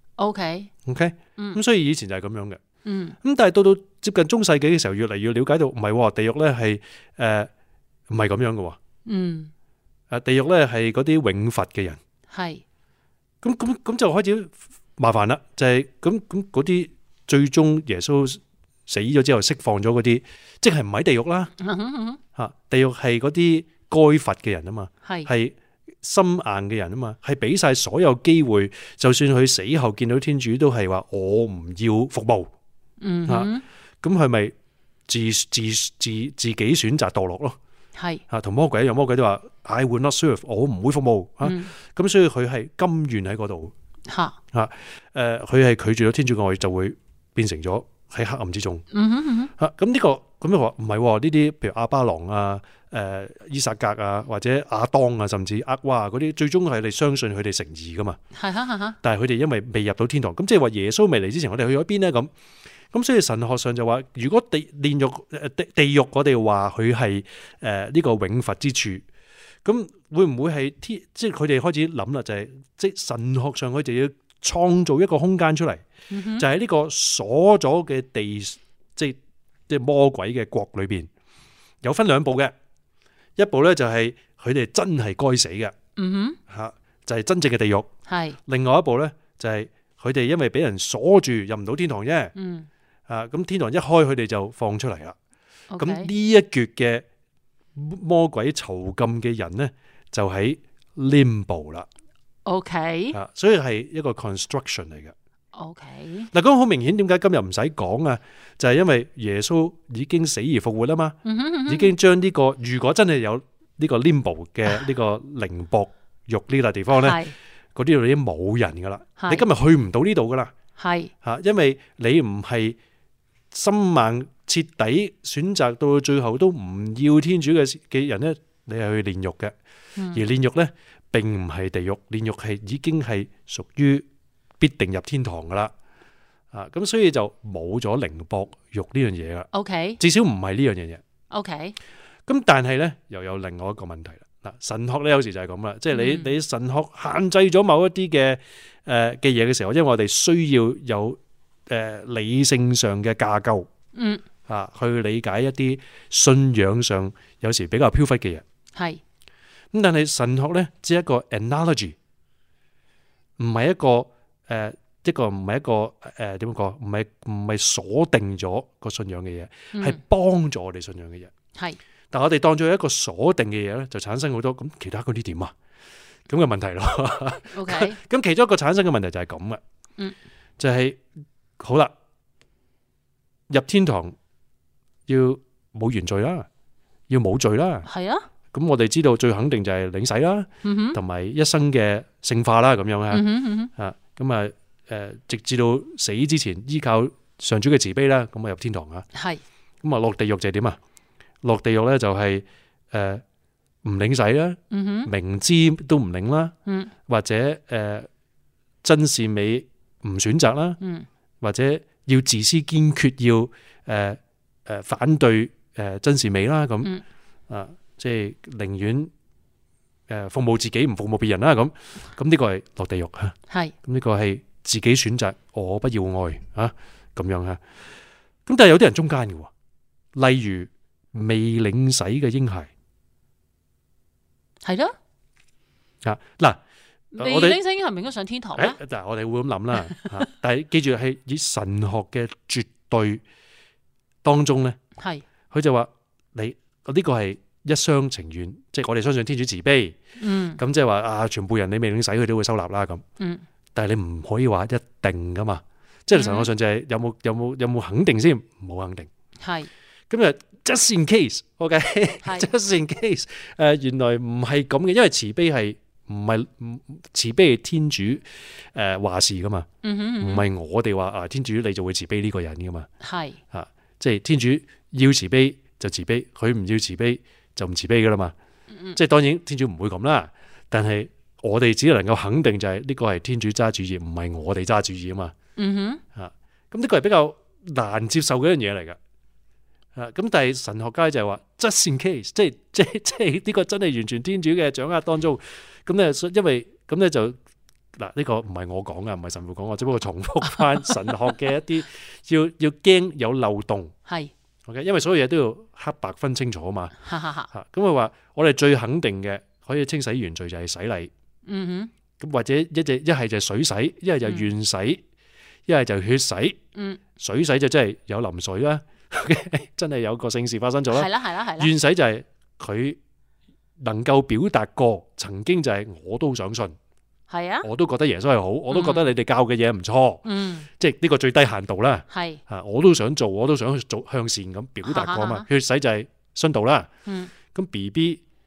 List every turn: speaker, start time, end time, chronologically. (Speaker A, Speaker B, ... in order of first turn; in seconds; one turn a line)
Speaker A: 0.2-0.7
Speaker B: 0.9-2.6
Speaker A: 2.9-3.2
Speaker B: 3.2-7.5
Speaker B: 8.1-8.8
Speaker A: 9.1-9.5
Speaker B: 10.1-12.0
Speaker A: 12.3-12.6
Speaker B: 13.4-21.5
Speaker A: 21.6-22.2
Speaker B: 22.4-32.5
Speaker A: 25.1-25.3
Speaker A: 33.0-33.6
Speaker B: 34.0-34.5
Speaker B: 35.1-37.6
Speaker A: 38.0-38.2
Speaker B: 38.3-43.7
Speaker A: 41.4-41.7
Speaker A: 44.1-44.4
Speaker B: 44.5-48.9
Speaker A: 48.9-49.5
Speaker B: 49.6-58.2
Speaker A: 58.4-59.0
Speaker B: 59.0-62.3
Speaker B: 62.9-69.0
Speaker B: 69.7-75.8
Speaker A: 76.1-76.5
Speaker B: 76.4-79.2
Speaker B: 79.7-81.1
Speaker B: 81.8-82.5
Speaker B: 83.4-85.7
Speaker A: 86.0-86.4
Speaker B: 86.5-87.9
Speaker A: 88.1-88.4
Speaker B: 88.5-92.3
Speaker A: 92.3-92.7
Speaker B: 93.1-95.2
Speaker A: 95.7-96.1
Speaker B: 95.8-97.0
Speaker B: 97.8-101.9
Speaker A: 102.5-103.2
Speaker B: 103.1-105.1
Speaker A: 105.5-106.3
Speaker B: 106.3-117.2
Speaker A: 111.2-111.9
Speaker A: 116.9-117.3
Speaker B: 117.8-120.5
Speaker A: 119.2-119.5
Speaker A: 120.8-121.1
Speaker B: 121.2-122.8
Speaker B: 123.5-129.5
Speaker B: 130.1-134.1
Speaker B: 134.6-135.7
Speaker B: 136.5-139.5
Speaker A: 139.5-140.0
Speaker B: 140.0-141.0
Speaker A: 141.3-141.8
Speaker B: 142.3-153.7
Speaker A: 145.9-146.3
Speaker A: 153.9-154.2
Speaker B: 154.5-158.4
Speaker A: 158.8-159.0
Speaker B: 159.7-161.9
Speaker B: 163.4-171.3
Speaker A: 169.7-170.0
Speaker B: 172.1-175.5
Speaker B: 176.3-179.6
Speaker A: 177.5-178.0
Speaker B: 180.6-181.0
Speaker B: 181.6-181.9
Speaker B: 183.5-184.2
Speaker B: 185.1-186.5
Speaker B: 187.1-187.9
Speaker A: 187.9-188.2
Speaker B: 188.5-199.1
Speaker A: 190.6-191.0
Speaker A: 193.1-193.7
Speaker A: 199.2-199.4
Speaker B: 199.8-200.8
Speaker B: 201.4-203.2
Speaker B: 203.8-206.5
Speaker A: 204.7-205.1
Speaker A: 206.7-206.9
Speaker B: 207.1-208.1
Speaker B: 208.8-210.8
Speaker A: 210.8-211.1
Speaker B: 211.4-216.9
Speaker B: 217.5-219.1
Speaker B: 220.1-227.6
Speaker B: 228.5-229.5
Speaker B: 230.2-232.7
Speaker A: 234.6-234.9
Speaker B: 236.0-236.6
Speaker A: 237.1-238.8
Speaker B: 237.2-237.6
Speaker B: 238.6-243.2
Speaker B: 244.2-244.8
Speaker A: 245.0-245.2
Speaker B: 245.5-250.0
Speaker A: 250.2-250.6
Speaker B: 250.6-253.0
Speaker B: 253.8-259.1
Speaker A: 256.1-256.5
Speaker A: 259.4-259.7
Speaker B: 260.1-269.7
Speaker A: 269.8-270.4
Speaker B: 270.2-272.9
Speaker A: 273.0-273.4
Speaker B: 273.5-278.3
Speaker A: 278.7-279.0
Speaker B: 278.9-285.3
Speaker A: 285.6-286.0
Speaker B: 286.1-289.0
Speaker B: 289.9-297.4
Speaker B: 298.0-303.9
Speaker A: 304.1-304.3
Speaker B: 304.7-306.9
Speaker A: 307.0-307.5
Speaker B: 307.5-311.1
Speaker A: 311.5-311.9
Speaker B: 312.2-315.0
Speaker A: 314.2-314.5
Speaker B: 315.7-316.6
Speaker A: 316.8-317.0
Speaker B: 317.2-323.0
Speaker A: 320.9-321.7
Speaker B: 323.8-326.7
Speaker A: 327.3-327.7
Speaker B: 327.6-330.2
Speaker A: 328.7-329.1
Speaker A: 330.2-330.7
Speaker B: 330.8-336.9
Speaker A: 332.1-332.4
Speaker A: 334.8-335.5
Speaker A: 337.1-337.3
Speaker B: 337.5-338.2